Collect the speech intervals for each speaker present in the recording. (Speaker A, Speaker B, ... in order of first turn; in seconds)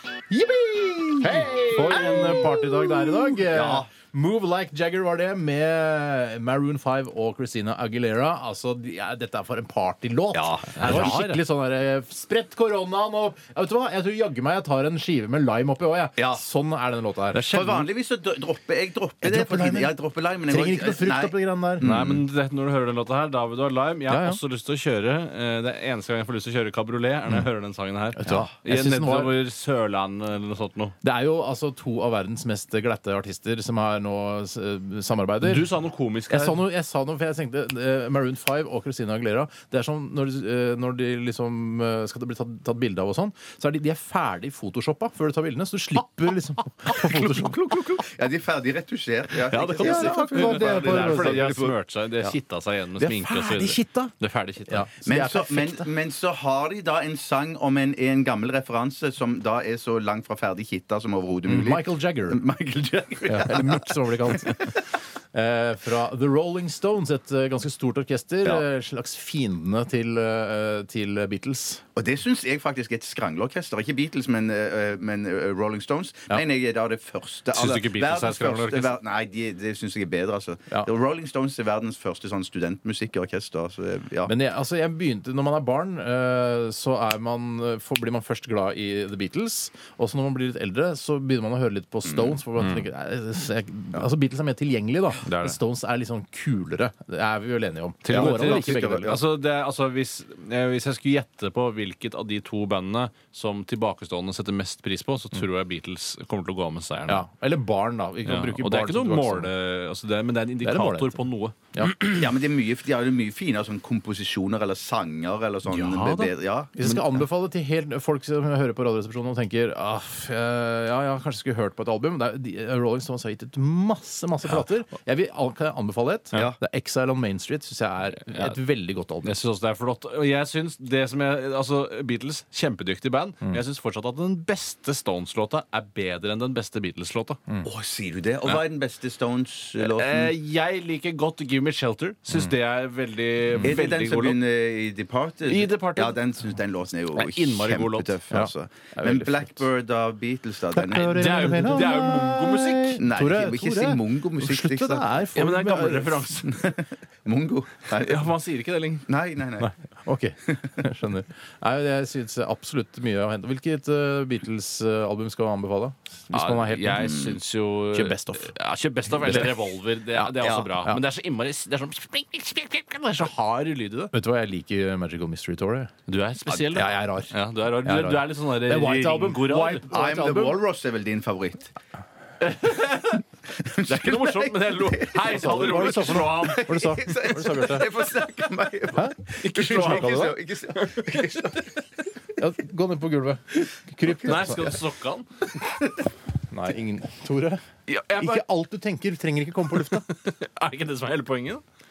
Speaker A: 0.3-17.9, 19.2-19.9, 20.5-21.9, 24.1-24.4, 28.2-29.3, 31.0-35.6, 36.3-47.8, 49.8-51.6, 53.0-54.1, 54.7-55.9, 61.5-62.4, 63.3-71.8, 84.3-99.2, 107.1-109.5, 110.6-111.9, 115.7-129.4, 143.5-143.8, 148.3-149.6, 150.7-156.3, 159.6-167.3, 167.9-168.5, 169.1-169.5, 174.1-175.9, 176.5-180.6, 185.3-187.9, 188.9-190.4, 192.4-194.8, 196.5-197.6, 198.2-200.1
Speaker B: 1.4-3.9, 10.3-11.2, 16.2-16.4, 17.3-22.2, 46.9-52.3, 55.0-64.8, 72.0-84.3, 92.1-92.4, 98.1-99.2, 112.0-117.1, 126.3-126.6, 137.6-140.3, 143.6-151.8, 153.0-155.1, 156.4-158.3, 159.1-159.7, 170.3-170.7, 179.4-181.7, 183.6-191.8
Speaker C: 1.6-2.4, 10.8-11.4, 21.8-30.9, 35.4-36.6, 49.5-54.9, 77.5-79.0, 92.6-92.9, 95.2-95.6, 98.0-107.2, 108.3-112.3, 128.3-128.6, 129.2-137.4, 139.8-144.4, 145.5-146.2, 147.1-148.2, 150.9-153.0, 155.3-156.7, 157.9-159.1, 166.3-174.1, 176.1-179.9, 182.4-186.7, 189.4-191.8, 194.1-195.3, 197.9-198.4, 199.7-201.6